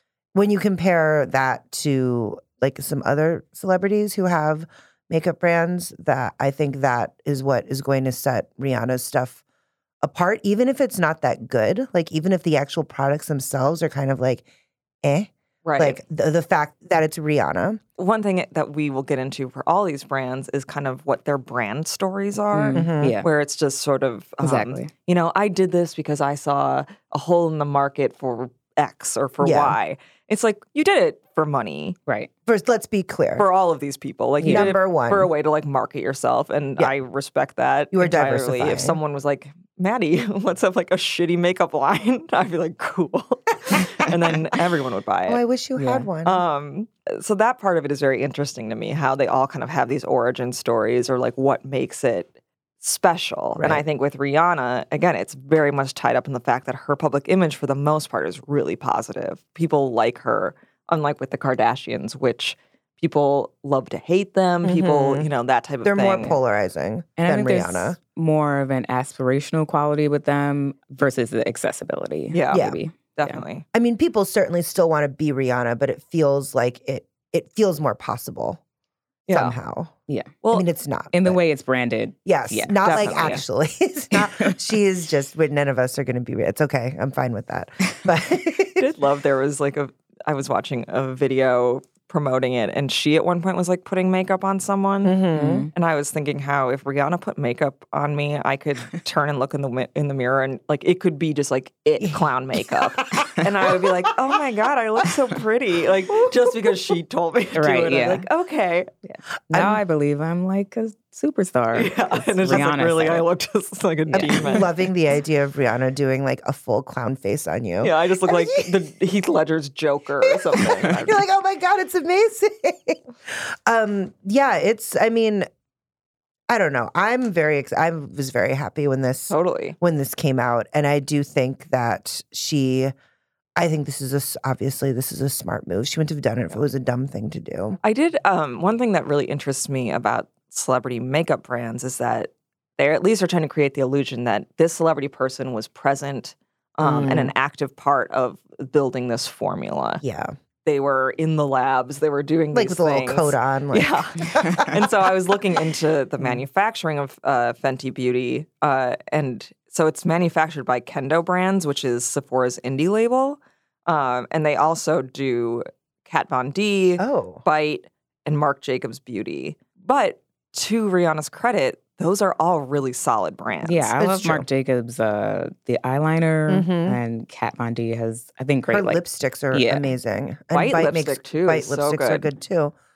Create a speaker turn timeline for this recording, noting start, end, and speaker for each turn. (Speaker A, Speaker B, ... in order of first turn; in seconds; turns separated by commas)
Speaker A: 0.3-9.4, Speaker A: 10.0-14.4, Speaker A: 15.0-17.8, Speaker B: 15.6-16.0, Speaker B: 18.0-32.0, Speaker C: 22.5-23.2, Speaker A: 22.7-23.2, Speaker C: 24.4-24.9, Speaker A: 29.4-29.8, Speaker A: 32.5-33.5, Speaker B: 33.4-45.4, Speaker C: 34.4-34.7, Speaker A: 34.4-35.3, Speaker A: 37.9-39.0, Speaker A: 45.3-46.4, Speaker C: 45.8-46.1, Speaker B: 46.2-52.3, Speaker B: 52.8-66.4, Speaker A: 53.6-53.8, Speaker A: 64.6-65.3, Speaker A: 65.8-68.0, Speaker C: 67.2-73.4, Speaker B: 72.3-73.6, Speaker A: 72.5-72.8, Speaker A: 73.7-78.6, Speaker B: 79.3-79.5, Speaker A: 79.3-80.0, Speaker C: 80.1-80.3, Speaker A: 80.5-81.4, Speaker C: 81.1-83.4, Speaker A: 82.2-88.8, Speaker B: 82.8-83.4, Speaker C: 84.1-84.5, Speaker B: 88.8-95.2, Speaker A: 95.0-95.7, Speaker C: 95.3-95.7, Speaker B: 95.7-108.9, Speaker A: 102.8-103.7, Speaker C: 107.5-108.2, Speaker C: 109.0-113.2, Speaker A: 109.5-109.8, Speaker B: 111.7-114.7, Speaker C: 114.1-114.6, Speaker A: 114.2-118.8, Speaker B: 117.8-121.2, Speaker A: 120.2-125.5, Speaker A: 126.5-132.9, Speaker B: 129.3-129.8, Speaker A: 133.6-137.8, Speaker B: 137.8-150.0, Speaker A: 146.8-147.3, Speaker A: 150.0-150.3, Speaker B: 150.6-173.9, Speaker A: 152.5-154.7, Speaker A: 167.0-167.4, Speaker C: 173.6-179.9, Speaker A: 174.0-174.4, Speaker A: 176.5-177.0, Speaker A: 178.7-182.7, Speaker B: 180.5-182.3